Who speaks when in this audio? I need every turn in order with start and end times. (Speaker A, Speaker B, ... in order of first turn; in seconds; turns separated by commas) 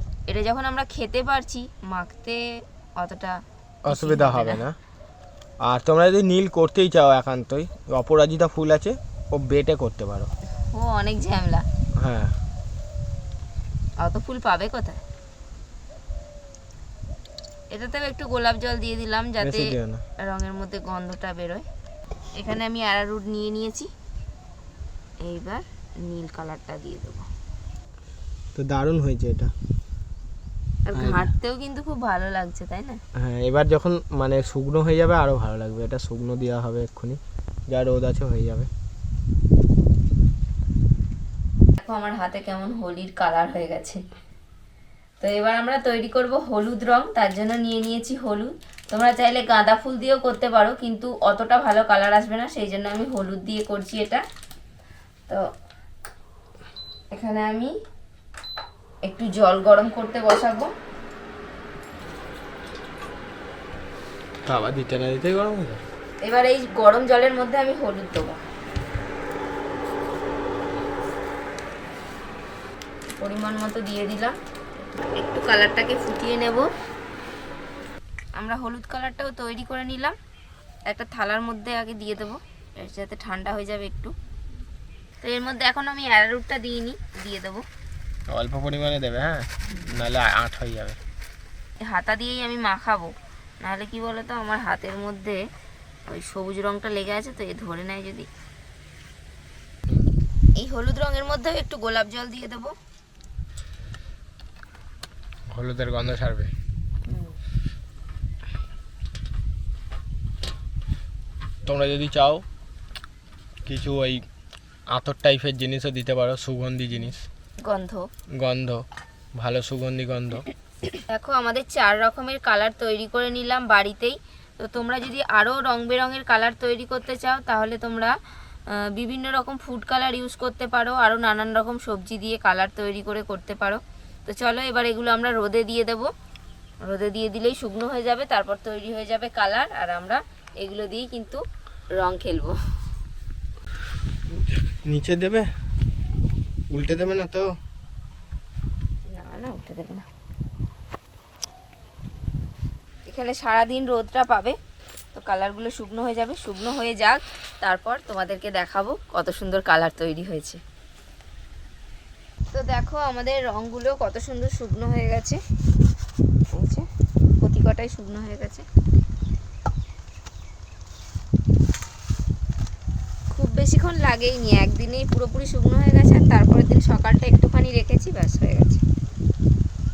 Speaker A: 0.3-2.4, Speaker A: 3.0-3.4, Speaker B: 3.8-4.8, Speaker A: 3.9-4.6, Speaker B: 5.6-10.3, Speaker A: 10.7-11.6, Speaker B: 12.0-12.3, Speaker A: 14.0-15.0, Speaker A: 17.7-19.7, Speaker B: 19.4-20.0, Speaker A: 20.2-21.6, Speaker A: 22.4-23.9, Speaker A: 25.2-27.2, Speaker B: 28.5-29.5, Speaker A: 30.9-33.0, Speaker B: 30.9-31.3, Speaker B: 33.2-38.7, Speaker A: 41.8-44.0, Speaker A: 45.2-54.2, Speaker A: 57.1-57.7, Speaker A: 59.0-60.7, Speaker B: 64.5-65.8, Speaker A: 66.2-68.4, Speaker A: 73.1-74.3, Speaker A: 75.0-76.7, Speaker A: 78.4-80.2, Speaker A: 80.9-84.1, Speaker A: 85.2-87.6, Speaker B: 88.3-91.0, Speaker A: 91.8-95.4, Speaker A: 96.1-98.3, Speaker A: 100.6-102.7, Speaker B: 105.5-106.5, Speaker A: 107.1-107.3, Speaker B: 111.7-112.4, Speaker B: 113.6-114.2, Speaker B: 114.9-117.2, Speaker A: 117.6-118.1, Speaker B: 118.4-118.8, Speaker B: 119.4-120.5, Speaker A: 121.1-128.1, Speaker A: 128.7-136.1, Speaker A: 136.8-141.4, Speaker A: 141.9-142.6, Speaker B: 144.3-145.5, Speaker B: 146.7-147.4, Speaker A: 149.1-150.1, Speaker A: 153.1-154.6, Speaker A: 155.1-160.6, Speaker A: 162.5-165.4, Speaker A: 166.5-166.9, Speaker A: 167.4-168.7, Speaker A: 173.3-178.8